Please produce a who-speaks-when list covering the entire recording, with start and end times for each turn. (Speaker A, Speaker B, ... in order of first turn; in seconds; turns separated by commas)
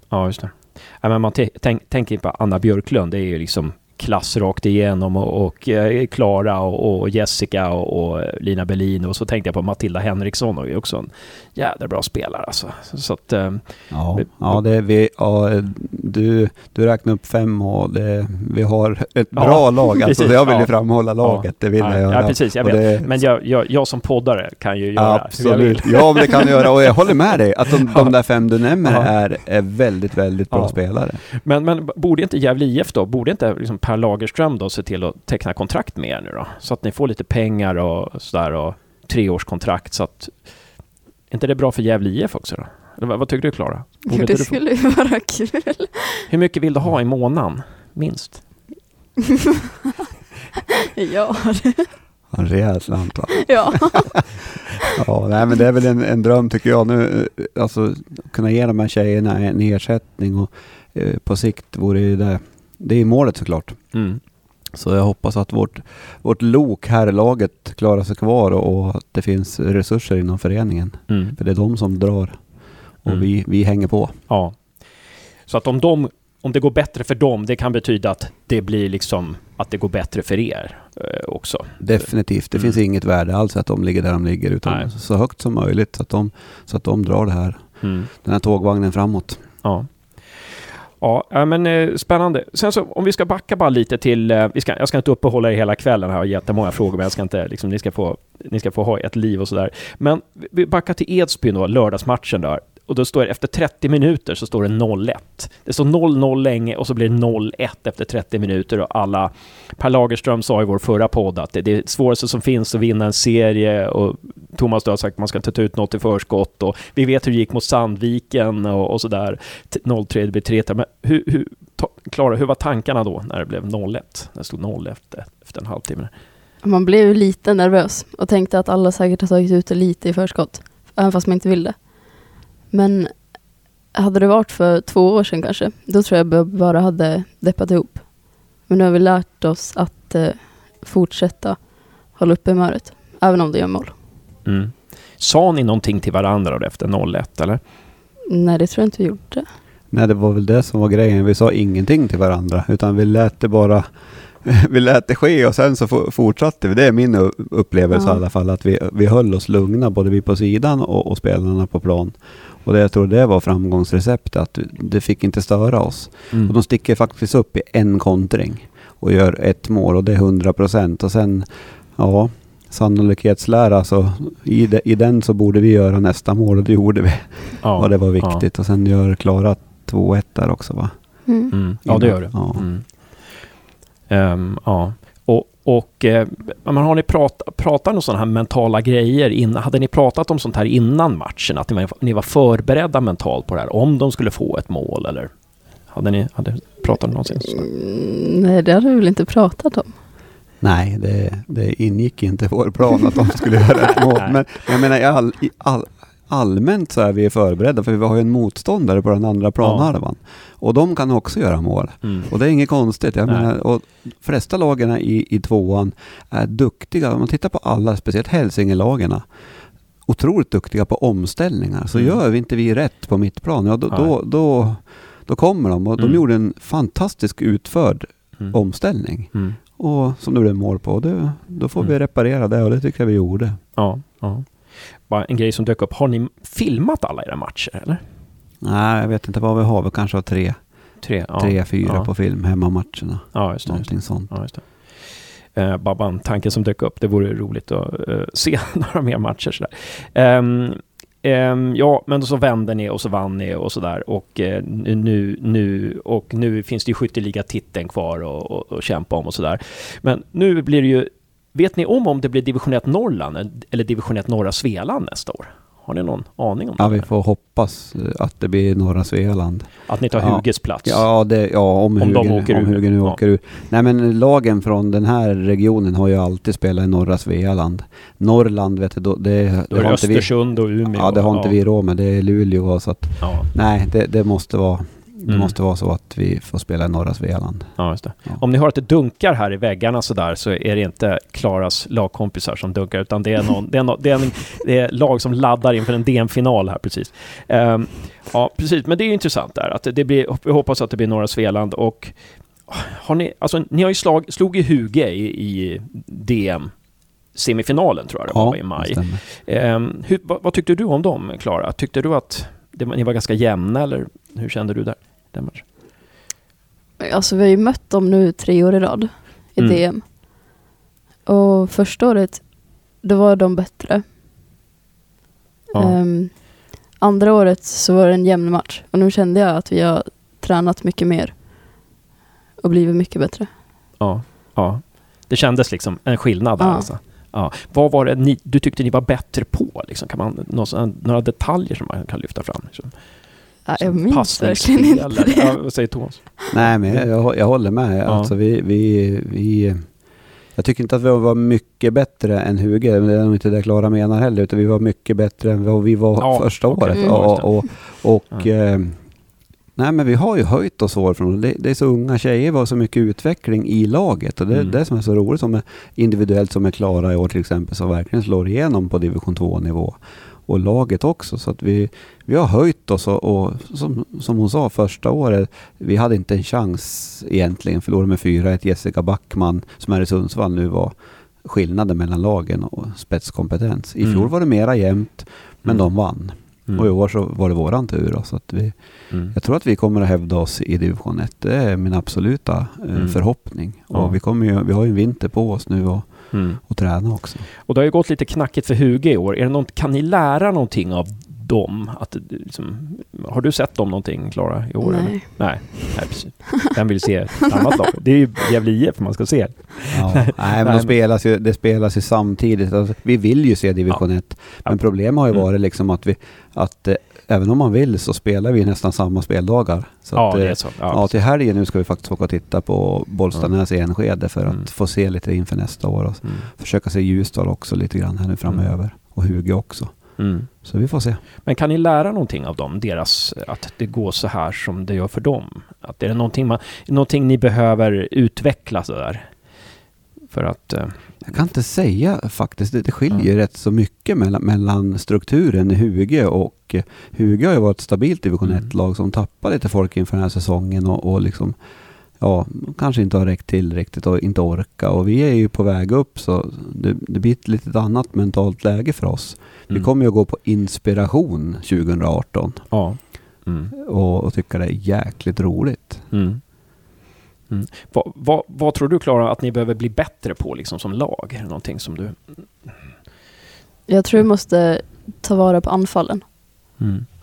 Speaker A: 0.1-14.6, Speaker B: 13.9-23.2, Speaker A: 19.3-27.1, Speaker B: 24.9-31.2, Speaker A: 28.8-29.3, Speaker A: 30.5-44.6, Speaker C: 44.0-46.3, Speaker A: 46.3-48.6, Speaker C: 51.0-51.9, Speaker B: 52.3-54.4, Speaker C: 53.3-54.2, Speaker B: 55.0-64.0, Speaker A: 63.9-64.2, Speaker B: 64.7-74.2, Speaker A: 71.1-71.4, Speaker A: 74.3-82.8, Speaker B: 81.8-89.6, Speaker A: 84.6-84.9, Speaker A: 87.8-88.1, Speaker A: 89.6-126.1, Speaker C: 126.6-144.0, Speaker A: 144.4-147.6, Speaker C: 148.3-149.4, Speaker B: 149.9-181.2, Speaker C: 157.9-158.2, Speaker A: 177.6-178.4, Speaker C: 181.2-181.7, Speaker A: 181.5-183.5, Speaker B: 181.8-182.7, Speaker A: 184.1-197.7, Speaker C: 197.4-200.0, Speaker B: 200.6-219.3, Speaker A: 203.8-204.4, Speaker A: 209.6-209.9, Speaker A: 212.0-212.4, Speaker B: 220.0-233.6, Speaker A: 221.9-222.2, Speaker A: 226.0-226.2, Speaker A: 228.4-229.6, Speaker A: 233.7-238.0, Speaker B: 238.6-244.5, Speaker A: 241.0-242.1, Speaker A: 243.3-267.1, Speaker B: 266.8-288.4, Speaker A: 269.8-271.1, Speaker A: 271.9-273.2, Speaker A: 279.7-281.6, Speaker A: 283.2-283.5, Speaker A: 285.2-285.5, Speaker A: 287.8-315.6, Speaker B: 308.3-309.2, Speaker C: 317.0-320.4, Speaker A: 319.6-319.8, Speaker C: 321.2-324.0, Speaker C: 325.7-331.8, Speaker C: 332.6-333.5, Speaker A: 334.0-347.2, Speaker C: 336.6-336.9, Speaker C: 343.6-345.7, Speaker B: 346.5-397.5, Speaker A: 348.0-348.3, Speaker A: 356.2-358.5, Speaker C: 356.9-357.5, Speaker A: 364.5-364.8, Speaker A: 384.0-384.3, Speaker A: 385.6-386.9, Speaker A: 389.1-389.3, Speaker A: 392.9-394.2, Speaker A: 396.3-396.6, Speaker A: 397.6-410.9, Speaker C: 404.8-406.2, Speaker B: 409.9-431.2, Speaker A: 413.9-415.5, Speaker A: 420.1-421.1, Speaker A: 426.2-426.5, Speaker A: 430.2-430.5, Speaker A: 431.3-441.4, Speaker B: 441.2-451.6, Speaker A: 448.4-448.7, Speaker B: 452.2-463.2, Speaker A: 462.7-463.7, Speaker B: 463.7-466.1, Speaker A: 466.1-472.9, Speaker C: 473.9-476.2, Speaker A: 476.8-477.1